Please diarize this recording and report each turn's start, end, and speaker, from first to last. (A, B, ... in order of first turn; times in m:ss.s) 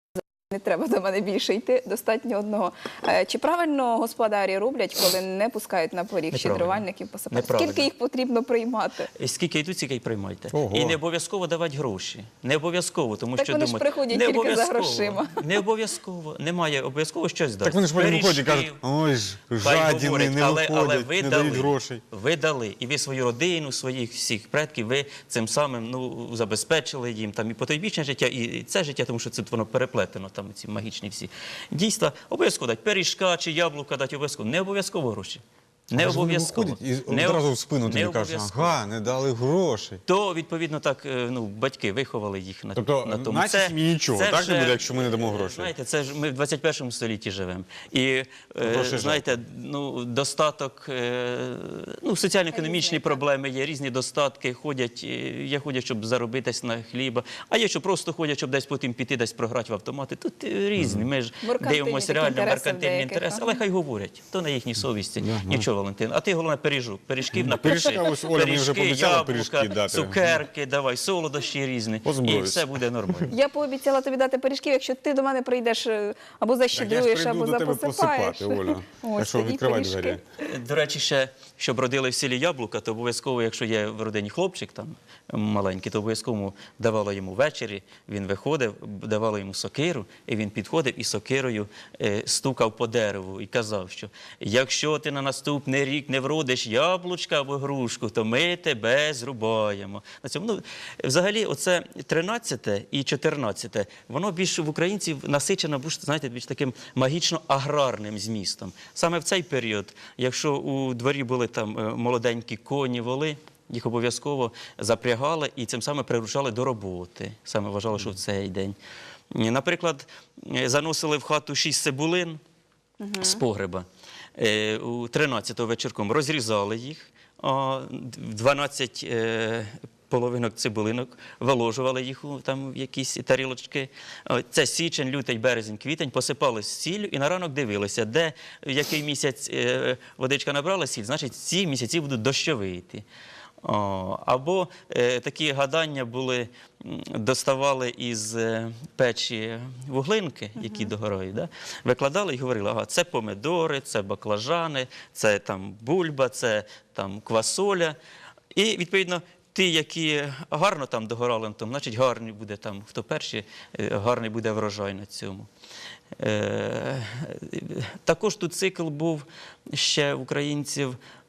0:00.5-0:09.1 A
0:06.3-0:07.9 B
0:09.2-0:18.8 B
0:10.5-0:11.0 C
0:13.4-0:15.4 A
0:17.6-0:22.0 C
0:19.6-0:38.8 B
0:36.0-0:40.0 C
0:40.1-1:13.3 B
0:42.8-0:45.7 C
0:48.6-0:49.3 C
0:52.5-0:53.2 A
1:00.8-1:01.1 C
1:01.4-1:03.6 A
1:05.2-1:05.7 C
1:07.3-1:10.3 C
1:12.0-1:12.7 C
1:13.3-1:20.2 A
1:16.7-1:20.2 C
1:20.4-1:58.8 B
1:59.3-2:02.4 B
2:03.0-2:03.4 A
2:03.2-2:03.9 B
2:04.4-2:23.0 B
2:23.6-2:38.0 B
2:30.6-2:30.9 A
2:38.5-2:45.5 B
2:46.2-2:51.0 B